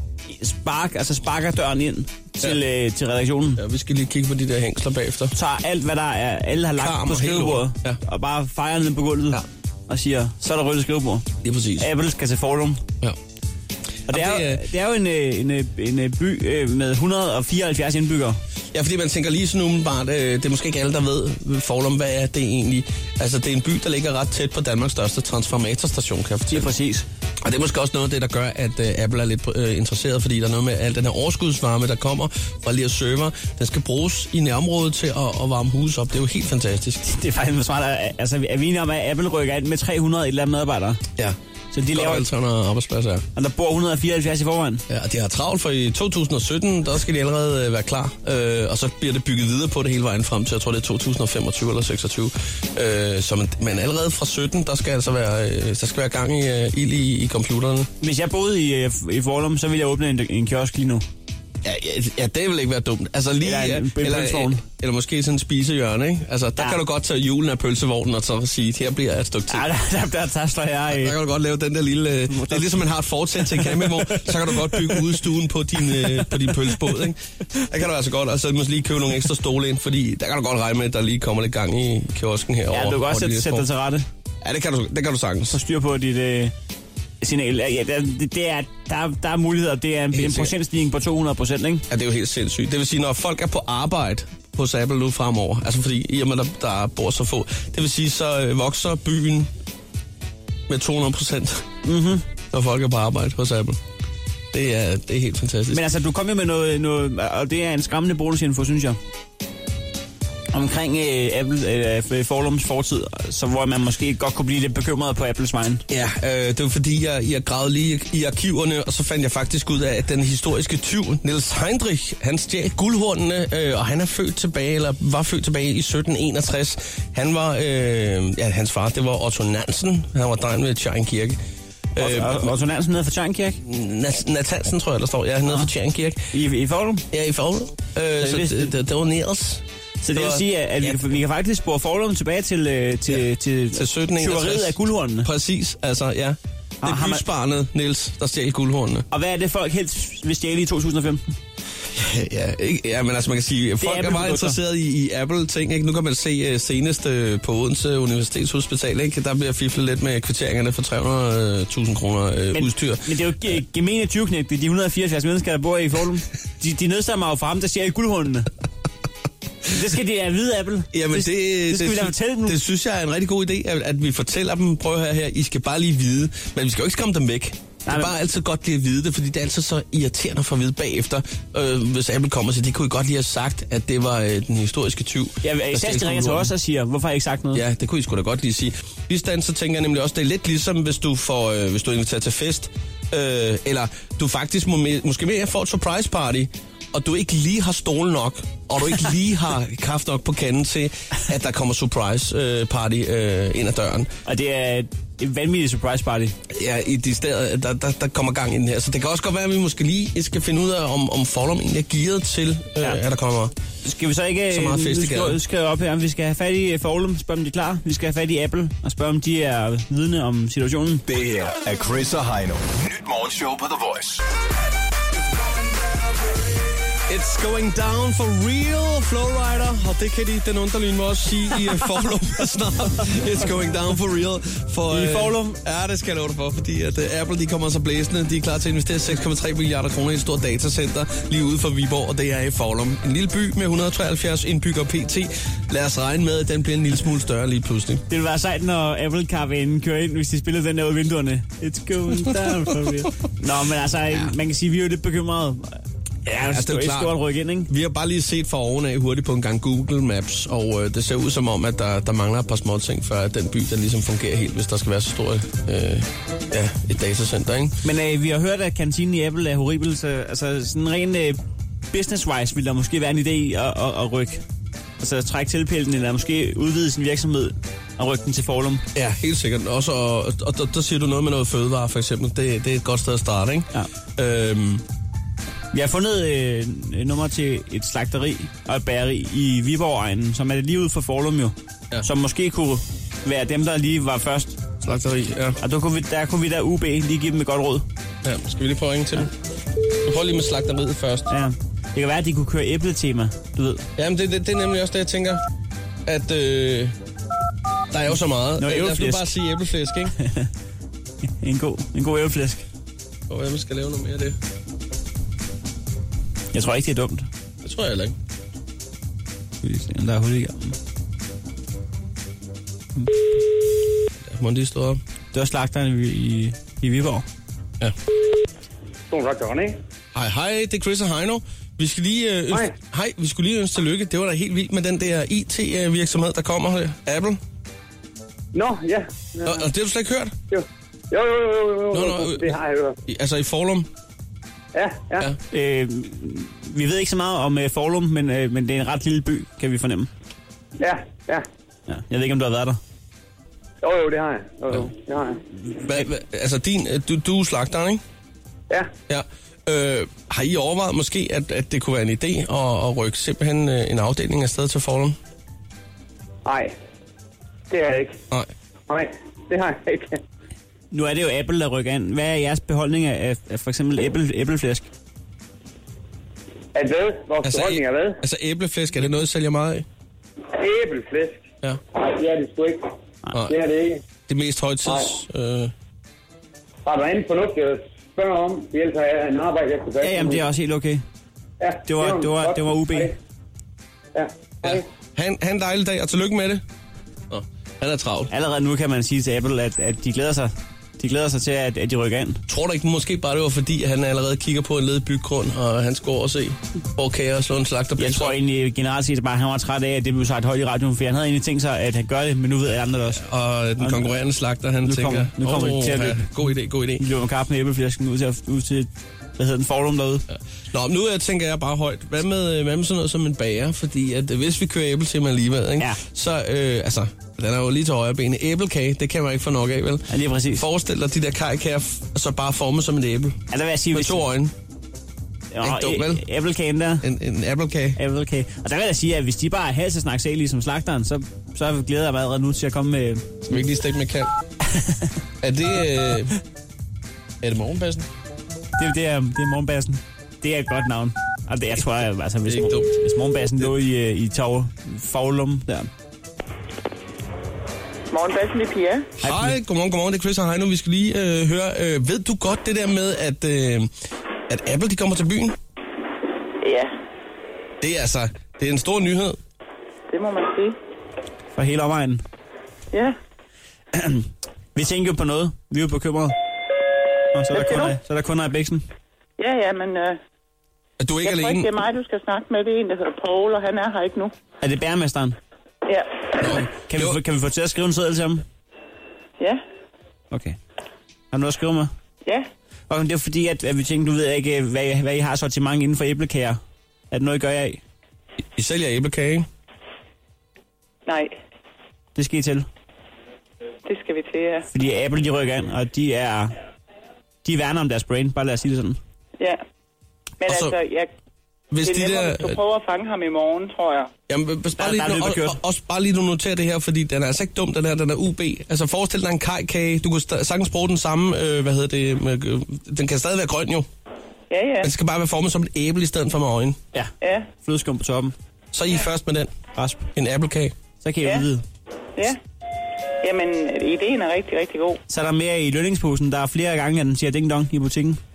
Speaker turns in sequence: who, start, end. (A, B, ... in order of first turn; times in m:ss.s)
0:00.3-0:03.6 A
0:03.6-0:05.3 B
0:05.3-0:12.8 A
0:06.8-0:08.0 B
0:11.4-0:11.9 B
0:14.1-0:14.6 B
0:14.1-0:18.4 A
0:18.7-0:26.7 B
0:26.5-0:27.1 A
0:27.4-0:37.0 B
0:37.0-0:41.0 A
0:41.7-0:42.3 A
0:41.9-0:43.3 B
0:43.4-0:44.8 A
0:44.9-0:57.9 B
0:58.0-1:01.0 A
1:01.6-1:09.7 B
1:03.4-1:04.6 A
1:09.5-1:11.2 A
1:10.9-1:23.7 B
1:12.3-1:12.9 A
1:13.4-1:15.2 A
1:16.1-1:16.7 A
1:22.7-1:24.1 A
1:24.4-1:25.6 B
1:25.5-1:26.5 A
1:27.2-1:31.8 A
1:30.1-1:30.6 B
1:31.9-1:39.5 B
1:40.7-1:41.7 B
1:41.8-1:42.2 A
1:42.5-1:43.8 B
1:44.5-1:45.8 B
1:45.7-1:49.0 A
1:50.5-1:55.8 A
1:55.9-2:11.4 B
2:12.0-2:12.6 B
2:12.0-2:13.6 A
2:13.6-2:16.2 B
2:16.3-2:17.1 A
2:17.1-2:21.0 B
2:18.2-2:18.7 A
2:20.0-2:25.3 A
2:23.7-2:29.0 B
2:26.8-2:27.2 A
2:29.1-2:31.4 A
2:31.9-2:43.1 B
2:33.8-2:34.6 A
2:42.5-2:48.5 A
2:49.7-2:52.6 A
2:50.9-3:06.5 B
2:57.9-2:58.1 A
3:05.4-3:07.6 A
3:07.5-3:24.1 B
3:24.3-3:26.4 A
3:26.5-3:33.5 B
3:33.8-3:41.0 A
3:34.5-3:35.4 B
3:41.1-3:44.2 C
3:47.1-4:08.0 B
3:54.9-3:55.6 A
4:08.1-4:17.7 A
4:16.3-4:27.8 B
4:27.8-4:31.4 A
4:31.9-4:34.4 A
4:35.0-4:38.8 A
4:39.0-4:44.8 B
4:45.7-4:54.6 A
4:54.8-4:55.6 B
4:55.6-4:57.8 A
4:58.2-4:59.3 B
5:00.0-5:01.3 B
5:01.3-5:03.9 A
5:04.0-5:05.4 B
5:06.1-5:07.0 B
5:07.9-5:10.1 B
5:08.6-5:09.3 A
5:10.2-5:10.5 A
5:11.4-5:12.6 A
5:13.3-5:14.4 B
5:16.5-5:17.3 A
5:17.6-5:18.2 B
5:19.6-5:20.8 A
5:24.2-5:25.0 B
5:25.3-5:27.3 A
5:29.1-5:29.8 D
5:30.1-5:37.4 B
5:38.5-5:39.7 D
5:39.4-5:40.4 B
5:40.5-5:43.0 D
5:41.9-5:43.9 B
5:44.7-5:45.3 D
5:45.5-5:50.1 A
5:50.8-5:51.4 D
5:51.9-5:52.8 A
5:53.8-5:55.4 D
5:55.7-5:56.1 A
5:55.8-5:58.0 B
5:59.1-6:05.2 B
6:06.4-6:06.7 D
6:07.7-6:08.2 D
6:08.9-6:10.2 D
6:10.9-6:14.9 A
6:16.8-6:18.2 D
6:17.4-6:19.9 B
6:20.6-6:21.4 D
6:21.9-6:24.0 D
6:23.3-6:23.6 B
6:24.3-6:25.7 B
6:24.9-6:25.1 D
6:26.9-6:30.5 D
6:30.0-6:31.0 A
6:31.6-6:33.1 D
6:31.9-6:33.1 A
6:34.2-6:34.8 D
6:34.6-6:36.6 B
6:37.3-6:38.3 B
6:38.3-6:42.4 A
6:42.5-6:48.4 B
6:48.0-6:53.2 A
6:53.2-6:57.0 B
6:53.8-6:54.0 A
6:54.8-6:56.3 A
6:57.0-7:00.2 A
7:00.3-7:14.5 B
7:10.1-7:10.6 A
7:13.5-7:14.2 A
7:15.5-7:17.0 A
7:15.6-7:16.2 B
7:17.0-7:18.0 B
7:18.0-7:23.3 A
7:23.4-7:24.3 B
7:24.7-7:25.1 A
7:25.4-7:26.3 B
7:27.4-7:28.1 B
7:28.8-7:35.9 A
7:32.5-7:32.9 B
7:38.1-7:39.1 E
7:39.2-7:39.6 A
7:39.2-7:43.9 B
7:44.5-7:45.6 B
7:46.6-7:46.9 E
7:47.8-7:49.4 B
7:50.1-7:50.8 E
7:51.6-7:52.2 A
7:52.9-7:53.2 E
7:53.9-7:56.3 A
7:57.3-7:58.8 A
7:57.5-7:58.0 E
7:59.4-8:00.2 E
8:01.0-8:01.7 B
8:01.2-8:04.3 E
8:04.6-8:05.4 A
8:06.4-8:07.2 B
8:06.5-8:08.4 A
8:10.3-8:10.6 A
8:11.3-8:11.9 A
8:12.9-8:16.6 A
8:17.1-8:17.8 A
8:18.6-8:19.5 B
8:21.1-8:21.4 E
8:22.2-8:22.7 A
8:23.8-8:24.7 E
8:24.7-8:26.5 A
8:27.4-8:29.0 A
8:30.4-8:31.1 E
8:30.4-8:30.8 B
8:31.7-8:32.6 B
8:31.8-8:34.1 E
8:34.3-8:43.9 B
8:34.8-8:35.6 A
8:44.5-8:44.9 E
8:44.8-8:46.8 B
8:46.9-8:48.4 A
8:47.2-8:47.5 E
8:48.7-8:49.6 B
8:49.8-8:50.1 A
8:50.2-8:50.8 B
8:51.0-8:51.6 A
8:53.2-8:55.0 E
8:55.1-8:58.2 A